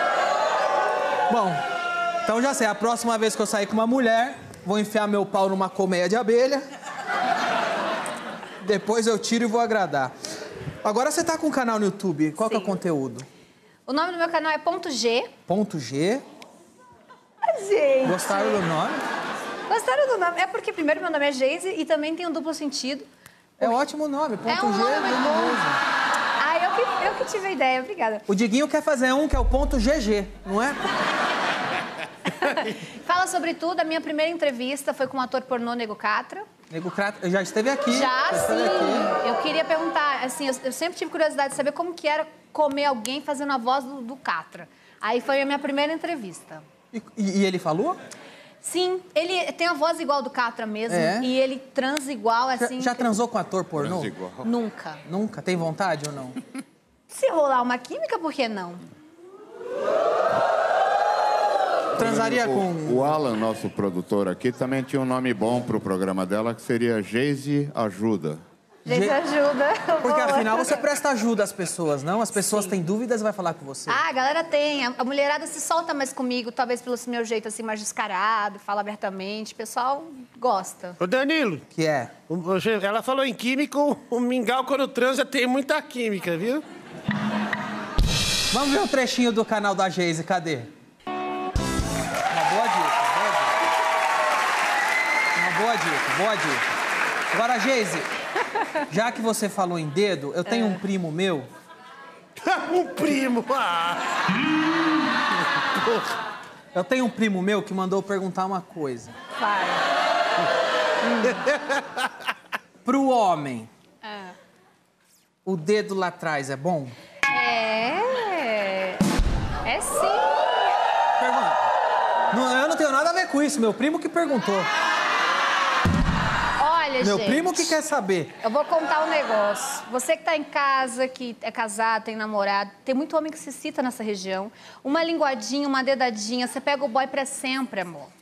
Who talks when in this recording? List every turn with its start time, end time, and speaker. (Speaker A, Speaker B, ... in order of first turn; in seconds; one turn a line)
Speaker A: 1.3-1.6
Speaker A: 2.2-6.6
Speaker A: 8.6-10.1
Speaker A: 10.8-13.3
Speaker B: 12.4-12.7
Speaker B: 13.9-15.3
Speaker A: 15.5-16.2
Speaker B: 17.4-18.6
Speaker A: 18.0-19.0
Speaker B: 19.7-23.1
Speaker A: 23.6-25.8
Speaker B: 24.5-25.6
Speaker B: 26.4-28.2
Speaker A: 28.3-30.9
Speaker B: 32.4-36.5
Speaker A: 36.7-39.1
Speaker B: 37.9-46.6
Speaker A: 46.9-48.0
Speaker B: 48.6-53.1
Speaker A: 50.9-51.3
Speaker A: 52.6-54.1
Speaker C: 53.8-54.5
Speaker B: 54.4-55.0
Speaker A: 55.0-56.4
Speaker B: 57.1-58.8
Speaker C: 62.0-68.4
Speaker A: 62.0-63.2
Speaker B: 68.8-70.8
Speaker A: 68.9-69.2
Speaker A: 70.0-74.0
Speaker B: 72.4-72.7
Speaker B: 73.9-81.0
Speaker D: 81.0-81.6
Speaker A: 81.7-82.1
Speaker D: 82.3-86.6
Speaker A: 88.5-90.7
Speaker A: 92.3-93.7
Speaker A: 95.3-96.7
Speaker A: 97.3-98.1
Speaker A: 98.9-101.5
Speaker B: 100.5-100.8
Speaker D: 102.4-104.0
Speaker A: 106.7-109.1
Speaker B: 109.4-109.8
Speaker B: 111.0-111.4
Speaker A: 112.8-113.7
Speaker B: 114.0-114.3
Speaker A: 115.4-117.0
Speaker B: 117.3-119.0
Speaker B: 119.6-120.4
Speaker A: 121.2-121.7
Speaker A: 122.3-124.7
Speaker B: 126.6-127.7
Speaker A: 127.0-128.3
Speaker B: 128.4-138.1